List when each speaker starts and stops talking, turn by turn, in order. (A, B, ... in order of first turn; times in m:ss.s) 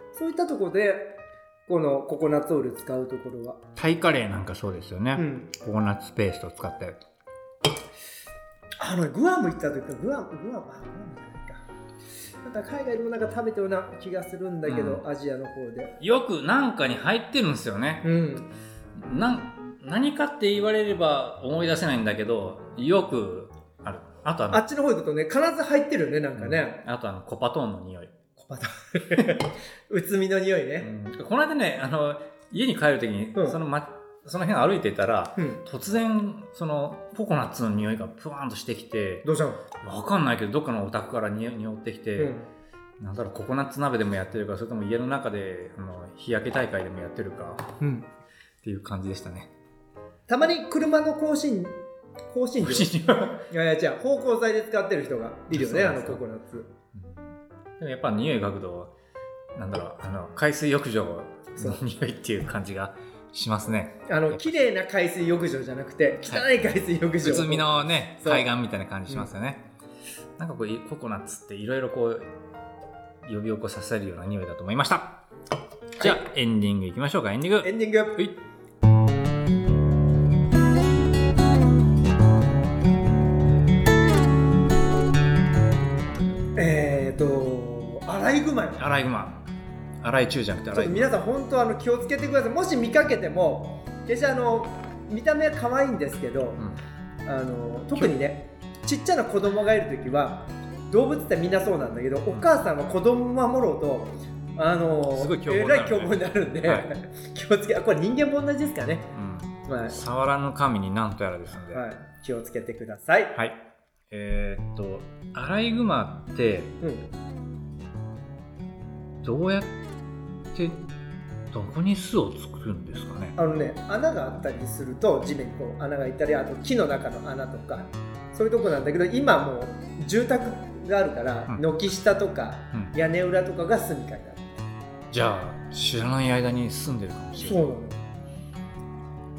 0:00.1-0:03.6 A
0:03.8-0:07.0 B
0:05.1-0:05.5 A
0:08.8-0:11.6 A
0:12.4-0:15.9 A
0:14.6-0:15.0 B
0:16.0-0:18.1 B
0:18.0-0:18.5 A
0:18.9-0:24.6 B
0:24.5-0:26.8 A
0:26.4-0:28.1 B
0:28.4-0:30.9 A
0:30.8-0:39.2 B
0:39.2-0:39.6 A
0:39.8-0:42.3 B
0:42.2-0:42.5 A
0:43.0-0:47.7 B
0:47.8-0:48.1 A
0:48.6-0:49.5 B
0:50.3-0:56.7 A
0:52.6-0:53.5 B
0:55.5-0:56.2 B
0:56.9-0:58.9 B
0:59.5-1:04.6 B
1:04.1-1:08.5 A
1:07.2-1:09.6 B
1:10.4-1:12.3 B
1:13.2-1:15.2 B
1:16.0-1:18.3 B
1:17.6-1:18.3 A
1:26.6-1:28.8 A
1:28.8-1:29.4 B
1:30.0-1:31.1 B
1:30.7-1:36.6 A
1:37.2-1:49.1 A
1:42.3-1:42.6 B
1:45.1-1:46.9 B
1:49.1-1:51.8 B
1:49.6-1:50.0 A
1:51.7-1:53.4 A
1:53.3-1:56.8 B
1:56.8-1:57.1 A
1:59.2-1:59.8 B
2:00.5-2:00.8 B
2:01.5-2:03.4 B
2:03.4-2:14.6 A
2:15.1-2:17.7 B
2:17.4-2:18.0 A